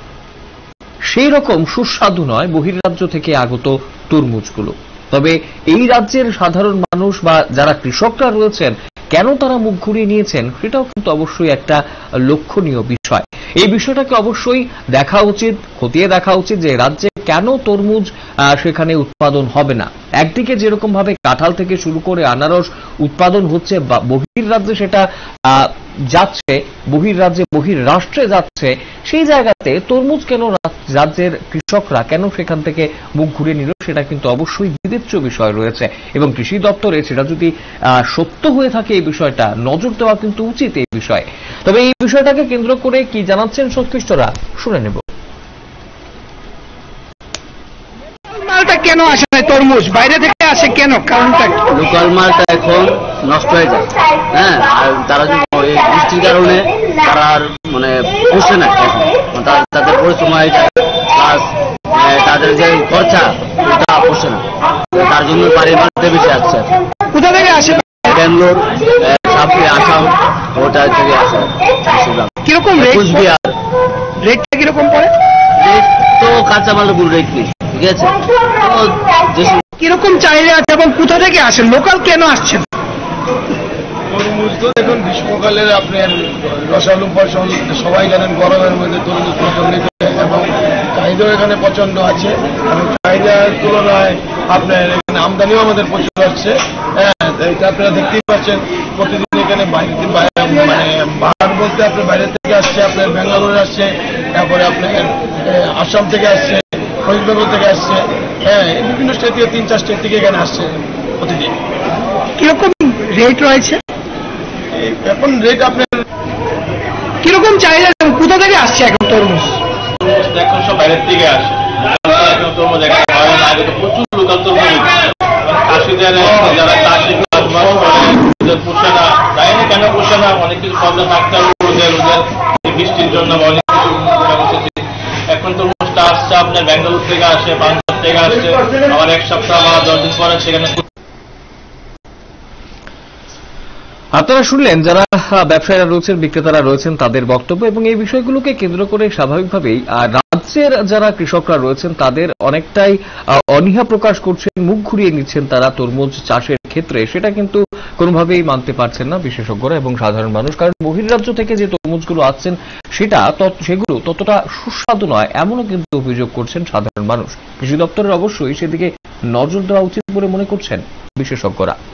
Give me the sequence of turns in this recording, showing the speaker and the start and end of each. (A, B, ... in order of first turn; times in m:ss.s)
0:01.1-0:45.0 A
0:48.3-0:51.6 B
0:51.7-1:06.7 C
1:07.1-1:08.1 B
1:08.0-1:13.5 C
1:12.4-1:13.2 B
1:14.2-1:15.1 B
1:15.6-1:19.6 C
1:19.8-1:22.7 B
1:24.1-1:51.5 D
1:52.4-1:53.8 B
1:54.7-1:56.0 D
1:57.2-1:59.6 B
2:00.0-2:20.8 E
2:24.2-2:51.8 A